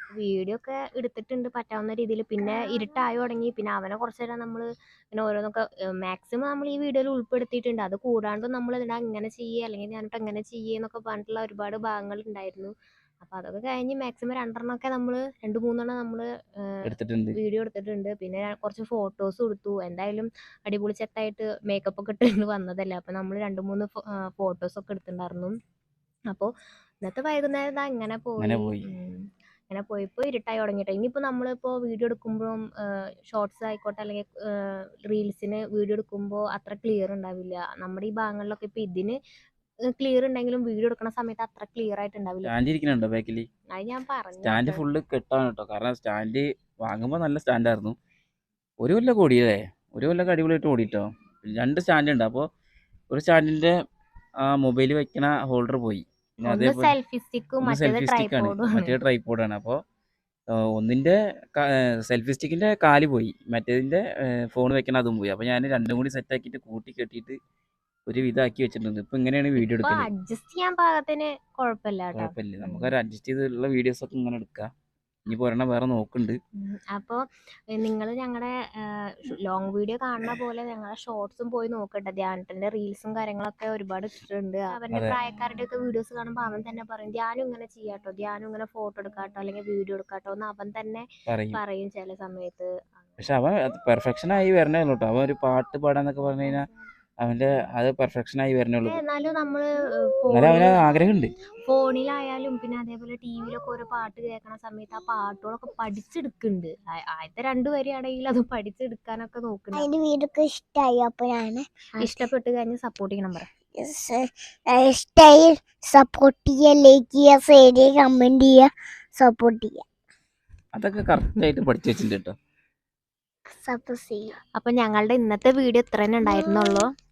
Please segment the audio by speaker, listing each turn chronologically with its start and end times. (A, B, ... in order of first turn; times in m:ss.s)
0:00.2-0:16.8 A
0:16.8-0:17.4 B
0:17.3-0:25.6 A
0:27.0-0:39.2 A
0:28.4-0:28.9 B
0:39.9-0:42.5 A
0:42.4-0:43.5 B
0:43.7-0:44.8 A
0:44.4-0:48.0 B
0:48.8-0:52.5 B
0:53.1-0:53.7 B
0:54.4-0:57.0 B
0:56.4-0:59.0 A
0:57.6-0:59.8 B
1:00.5-1:07.4 B
1:08.1-1:10.1 B
1:09.6-1:12.9 A
1:12.1-1:14.7 B
1:15.3-1:16.4 B
1:16.6-1:33.2 A
1:31.3-1:31.6 B
1:33.2-1:36.7 B
1:37.2-1:39.0 B
1:38.8-1:40.8 A
1:40.3-1:41.4 B
1:41.6-1:49.9 A
1:49.7-1:52.2 C
1:52.0-1:53.5 A
1:53.8-1:59.8 C
2:00.7-2:02.3 B
2:03.5-2:04.3 C
2:04.6-2:06.9 A
2:06.2-2:06.8 C